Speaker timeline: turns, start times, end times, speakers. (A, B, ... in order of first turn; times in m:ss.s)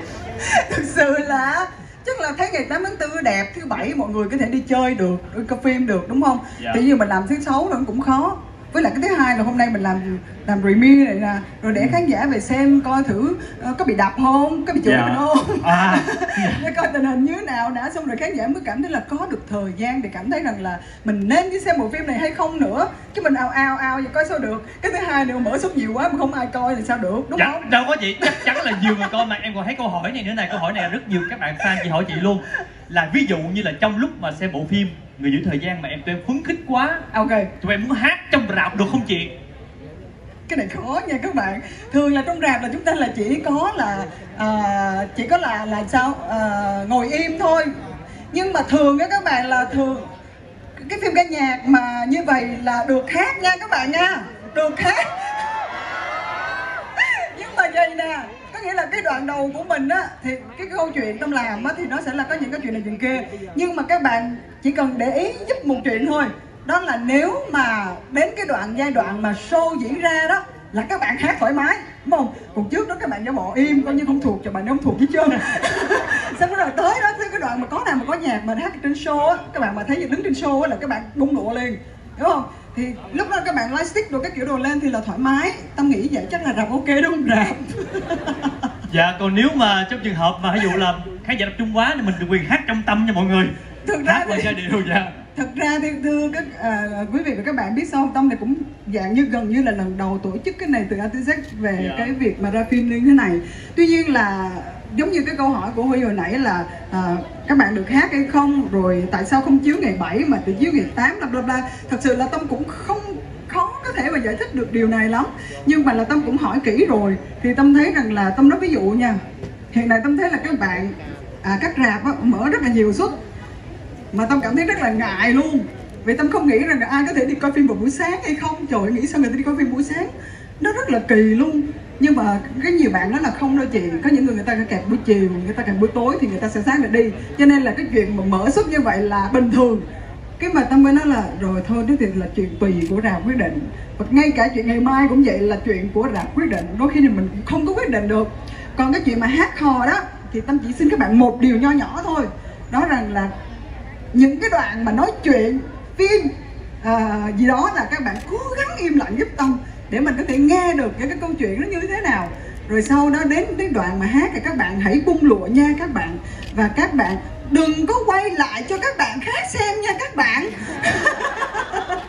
0:00.4-0:27.7 A
0:14.8-0:16.7 B
0:27.4-0:37.0 B
0:28.2-0:29.2 A
0:37.1-0:37.5 A
0:37.6-0:39.3 B
0:40.5-0:47.7 A
0:48.3-0:50.0 A
0:50.8-0:55.1 A
0:57.0-1:28.5 A
1:28.9-1:35.1 B
1:33.8-1:34.5 A
1:35.3-1:59.2 A
1:41.8-1:42.1 B
1:59.7-2:03.2 A
2:04.1-2:10.1 A
2:10.6-2:19.8 A
2:20.4-2:33.3 A
2:34.1-2:36.3 A
2:36.8-2:51.9 A